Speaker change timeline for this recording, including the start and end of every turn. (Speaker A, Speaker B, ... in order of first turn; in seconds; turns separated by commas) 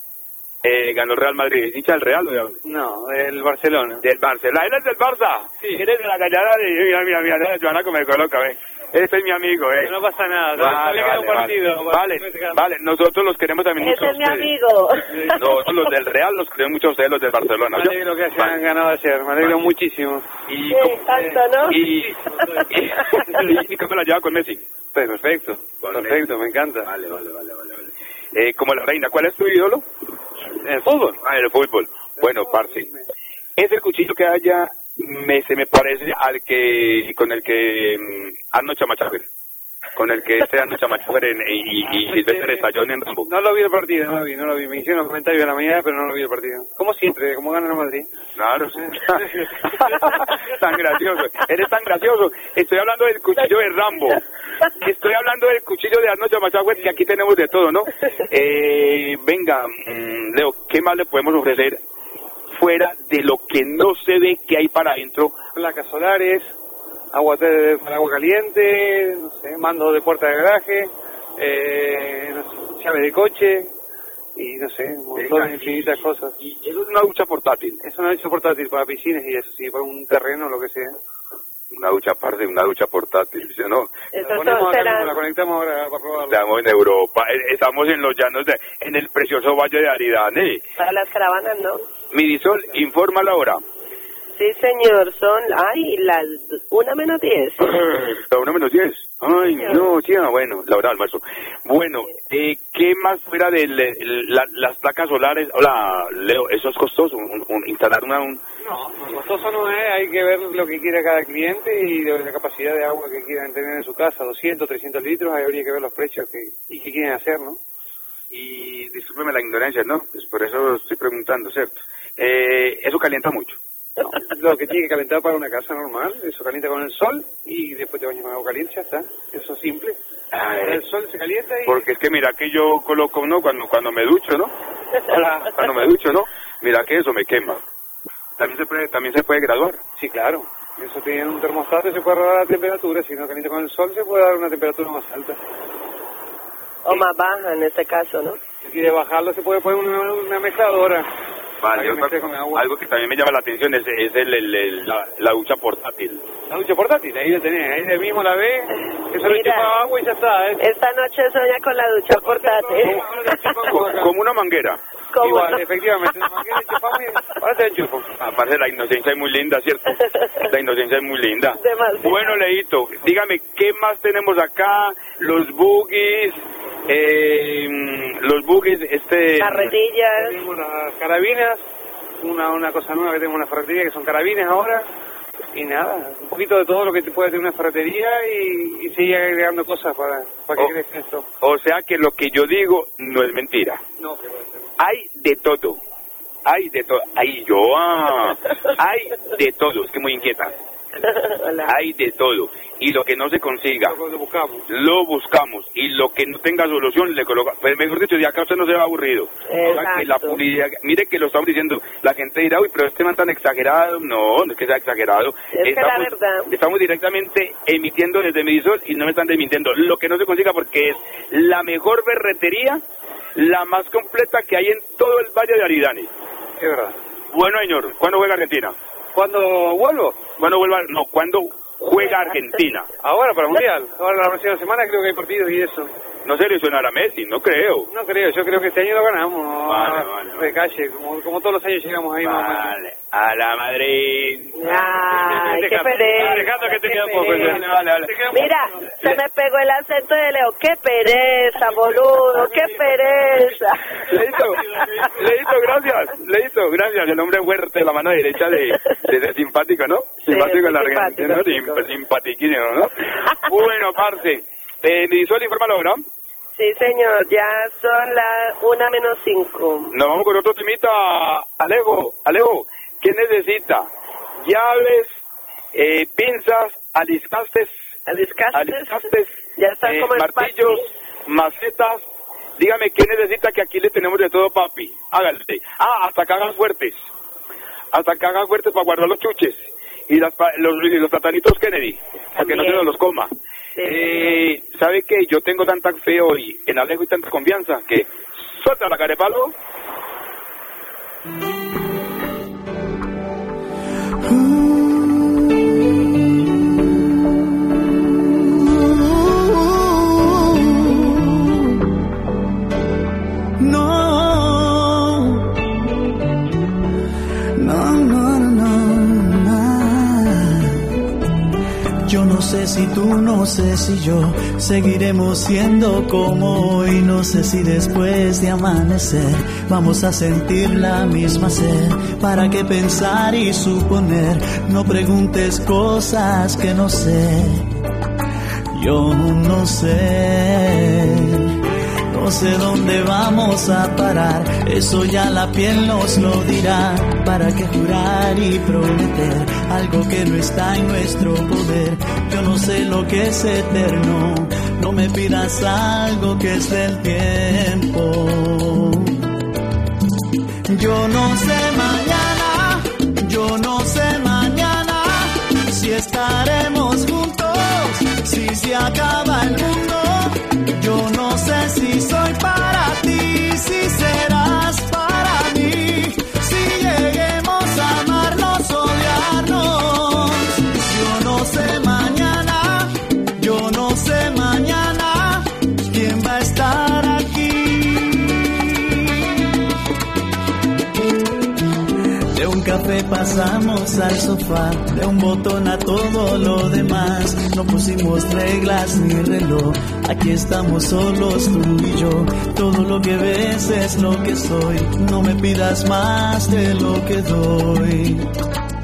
Speaker A: 0.6-2.6, Speaker B: 2.6-4.0, Speaker A: 4.0-9.9, Speaker B: 9.8-12.6, Speaker A: 10.6-14.5, Speaker C: 13.8-15.4, Speaker A: 15.3-18.6, Speaker B: 17.7-20.3, Speaker A: 20.5-24.6, Speaker C: 20.7-21.8, Speaker B: 21.8-23.5, Speaker B: 24.9-26.9, Speaker A: 25.8-26.3, Speaker A: 26.8-29.9, Speaker B: 30.6-31.2, Speaker A: 31.2-32.9, Speaker B: 32.2-33.0, Speaker A: 33.6-39.2, Speaker A: 40.0-43.3, Speaker B: 41.9-42.7, Speaker B: 43.2-48.1, Speaker A: 48.4-54.2, Speaker B: 48.7-50.2, Speaker A: 54.8-61.8, Speaker A: 62.5-65.3, Speaker B: 65.5-66.5, Speaker B: 67.1-73.7, Speaker B: 74.4-76.3, Speaker A: 75.2-77.8, Speaker B: 77.8-81.0, Speaker A: 81.7-83.9, Speaker C: 84.1-85.1, Speaker B: 84.2-86.4, Speaker A: 86.3-90.6, Speaker C: 90.8-91.8, Speaker A: 92.1-93.6, Speaker C: 94.4-97.8, Speaker A: 97.6-108.4, Speaker B: 108.6-117.6, Speaker A: 118.3-123.6, Speaker B: 124.1-130.0, Speaker A: 130.3-130.8, Speaker B: 130.6-131.8, Speaker A: 131.7-134.5, Speaker A: 135.1-137.6, Speaker A: 138.4-139.8, Speaker B: 140.0-145.4, Speaker C: 146.9-148.4, Speaker B: 148.6-151.1, Speaker A: 151.6-156.2, Speaker B: 151.7-152.7, Speaker B: 156.5-160.6, Speaker C: 159.2-159.7, Speaker C: 160.6-163.6, Speaker B: 162.1-164.1, Speaker A: 163.7-164.8, Speaker C: 165.1-165.6, Speaker B: 165.2-168.1, Speaker A: 168.2-179.8, Speaker C: 171.6-172.4, Speaker C: 179.4-180.4, Speaker B: 180.2-181.6, Speaker B: 182.2-184.9, Speaker B: 185.5-191.2, Speaker A: 191.4-193.8, Speaker B: 194.0-194.6, Speaker A: 194.8-195.8, Speaker A: 196.5-200.5, Speaker C: 201.0-201.7, Speaker A: 201.7-204.0, Speaker B: 203.8-204.7, Speaker A: 204.7-222.8, Speaker C: 209.5-210.4, Speaker C: 215.5-216.5, Speaker A: 223.3-226.1, Speaker B: 226.6-227.0, Speaker A: 227.3-228.8, Speaker B: 229.2-230.2, Speaker A: 230.4-232.9, Speaker B: 233.0-235.9, Speaker A: 236.2-237.9, Speaker B: 237.9-242.8, Speaker A: 239.7-240.6, Speaker A: 242.2-244.6, Speaker C: 244.6-247.6, Speaker B: 244.7-248.6, Speaker A: 246.2-248.4, Speaker C: 248.3-254.1, Speaker B: 252.4-253.5, Speaker A: 254.1-266.0, Speaker B: 254.7-255.1, Speaker C: 260.2-261.9, Speaker C: 266.6-269.9, Speaker A: 269.9-273.9, Speaker A: 274.4-275.1, Speaker A: 275.7-277.7, Speaker C: 278.1-279.0, Speaker A: 278.5-279.3, Speaker C: 279.6-280.8, Speaker A: 279.9-282.0, Speaker A: 282.6-286.9, Speaker A: 287.9-293.3, Speaker C: 292.4-292.9, Speaker C: 293.8-294.4, Speaker A: 293.8-299.5, Speaker D: 304.2-305.5, Speaker D: 308.4-311.8, Speaker D: 313.6-315.6, Speaker D: 317.6-321.0, Speaker D: 322.1-337.7, Speaker D: 338.7-341.6, Speaker D: 342.1-359.2, Speaker D: 360.7-389.4, Speaker D: 392.3-408.3